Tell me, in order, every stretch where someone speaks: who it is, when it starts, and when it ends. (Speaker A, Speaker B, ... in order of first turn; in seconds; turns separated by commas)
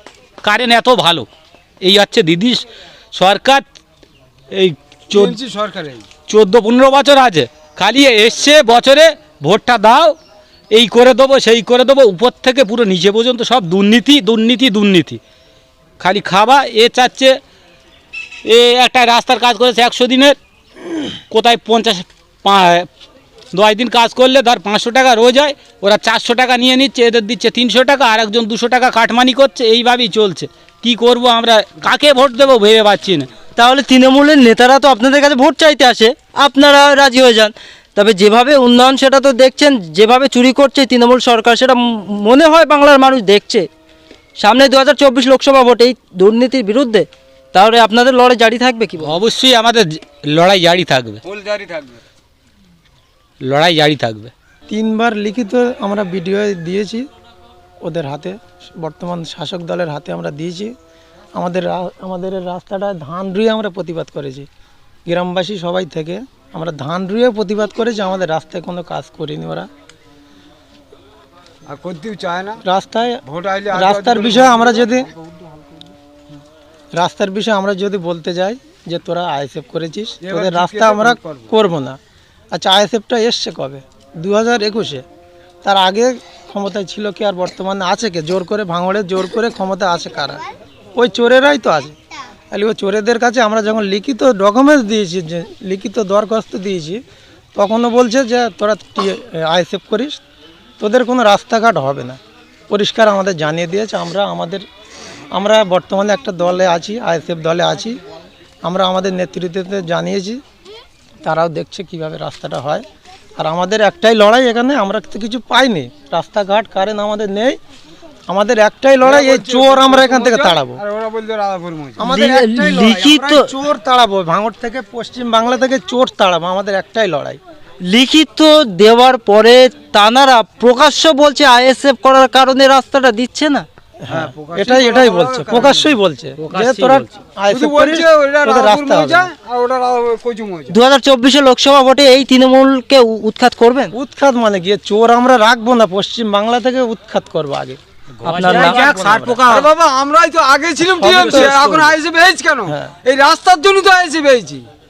Speaker A: 0.4-1.3, Speaker A: 1.8-3.6, Speaker A: 4.5-5.3, Speaker B: 5.1-6.0, Speaker A: 6.3-10.1, Speaker A: 10.7-15.2, Speaker A: 16.0-17.4, Speaker A: 18.4-20.4, Speaker A: 21.3-22.9, Speaker A: 23.5-33.3, Speaker C: 33.5-43.7, Speaker C: 44.4-49.1, Speaker A: 49.0-51.2, Speaker B: 51.2-52.0, Speaker A: 53.4-54.3, Speaker D: 54.7-57.0, Speaker D: 57.8-60.7, Speaker D: 61.3-64.5, Speaker D: 65.0-69.7, Speaker B: 71.7-72.6, Speaker D: 72.6-75.1, Speaker B: 73.2-75.7, Speaker D: 76.9-82.0, Speaker B: 80.2-81.5, Speaker D: 82.5-85.0, Speaker D: 85.6-90.4, Speaker D: 91.0-91.9, Speaker D: 92.5-97.0, Speaker D: 97.5-100.2, Speaker D: 100.8-102.2, Speaker D: 102.7-104.6, Speaker D: 105.3-108.0, Speaker D: 108.6-110.4, Speaker D: 111.2-112.8, Speaker D: 113.4-117.6, Speaker D: 118.3-120.8, Speaker B: 119.0-122.0, Speaker D: 122.0-127.4, Speaker C: 122.0-123.5, Speaker C: 127.8-133.7, Speaker D: 134.0-139.3, Speaker B: 134.1-135.9, Speaker A: 136.4-137.2, Speaker B: 137.5-140.7, Speaker C: 140.7-143.9, Speaker D: 143.9-147.8, Speaker A: 148.2-149.7, Speaker C: 148.2-148.8, Speaker D: 148.4-149.4, Speaker B: 149.4-154.7, Speaker D: 151.0-151.8, Speaker A: 151.1-151.7, Speaker D: 152.7-152.9